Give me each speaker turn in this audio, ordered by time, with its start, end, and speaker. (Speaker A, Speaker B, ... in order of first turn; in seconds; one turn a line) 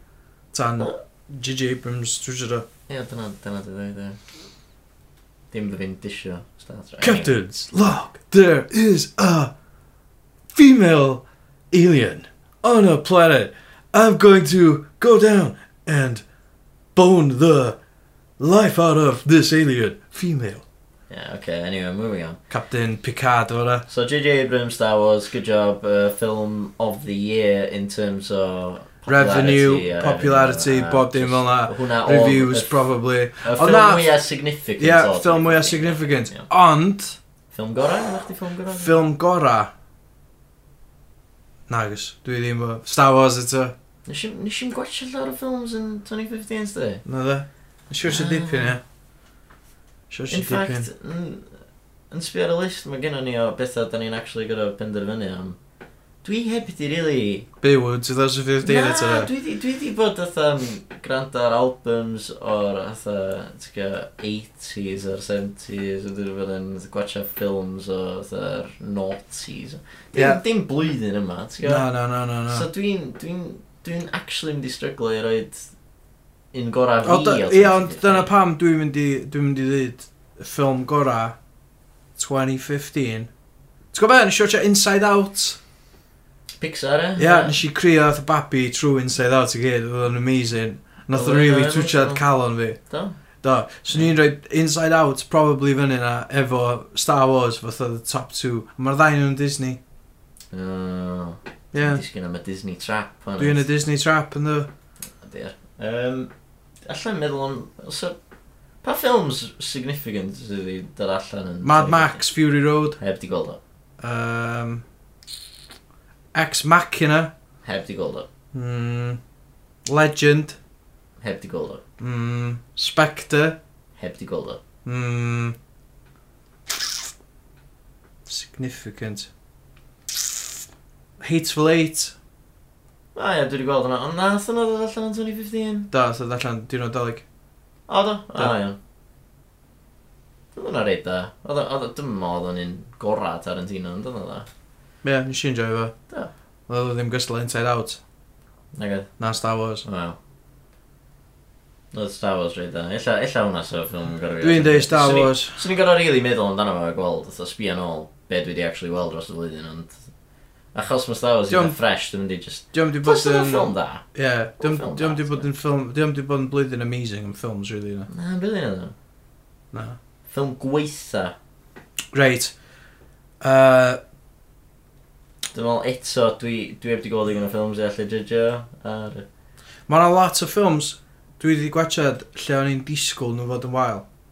Speaker A: 0.5-2.6
Speaker B: 2.9-4.2
Speaker B: 5.5-7.3
Speaker A: 7.0-9.5
Speaker A: 10.5-16.2
Speaker A: 16.9-17.8
Speaker A: 18.4-20.6
Speaker B: 21.1-22.4
Speaker A: 22.5-23.9
Speaker B: 23.9-32.9
Speaker A: 29.1-34.1
Speaker B: 33.4-36.5
Speaker A: 34.8-37.2
Speaker B: 37.5-38.9
Speaker A: 38.7-39.7
Speaker A: 41.7-43.7
Speaker B: 44.1-47.0
Speaker A: 47.0-48.8
Speaker B: 48.0-48.8
Speaker A: 50.1-50.9
Speaker B: 50.3-51.5
Speaker B: 52.1-55.6
Speaker B: 56.2-57.5
Speaker A: 57.6-59.3
Speaker B: 58.6-71.9
Speaker A: 70.1-70.4
Speaker A: 71.6-72.7
Speaker B: 72.5-75.7
Speaker B: 76.5-78.3
Speaker A: 77.0-81.3
Speaker A: 82.2-83.3
Speaker A: 83.9-85.6
Speaker B: 86.6-87.5
Speaker A: 87.2-92.8
Speaker B: 91.1-92.2
Speaker B: 92.9-93.1
Speaker A: 93.4-99.8
Speaker B: 100.5-103.7
Speaker A: 101.7-102.0
Speaker A: 103.4-104.7
Speaker B: 105.2-106.3
Speaker B: 106.8-108.2
Speaker B: 108.8-112.2
Speaker A: 111.6-113.0
Speaker B: 113.0-113.6
Speaker A: 114.0-114.8
Speaker A: 116.3-117.3
Speaker B: 117.6-118.3
Speaker A: 118.5-119.2
Speaker A: 119.9-120.6
Speaker B: 121.2-121.8
Speaker A: 122.0-123.6
Speaker B: 124.0-124.6
Speaker A: 124.8-125.5
Speaker A: 128.2-129.3
Speaker A: 131.2-132.1
Speaker B: 133.1-135.9
Speaker A: 135.9-137.2
Speaker B: 137.9-138.8
Speaker B: 140.5-144.5
Speaker A: 145.0-145.9
Speaker A: 146.7-148.0
Speaker B: 148.7-149.1
Speaker A: 149.2-149.8
Speaker B: 149.8-150.2
Speaker B: 151.9-159.9
Speaker A: 154.4-155.6
Speaker B: 160.7-164.0
Speaker A: 161.5-161.8
Speaker A: 162.7-168.1
Speaker B: 164.6-165.4
Speaker B: 168.1-168.9
Speaker B: 170.3-171.3
Speaker A: 172.1-172.5
Speaker A: 173.4-174.0
Speaker B: 175.5-179.2
Speaker A: 179.9-184.0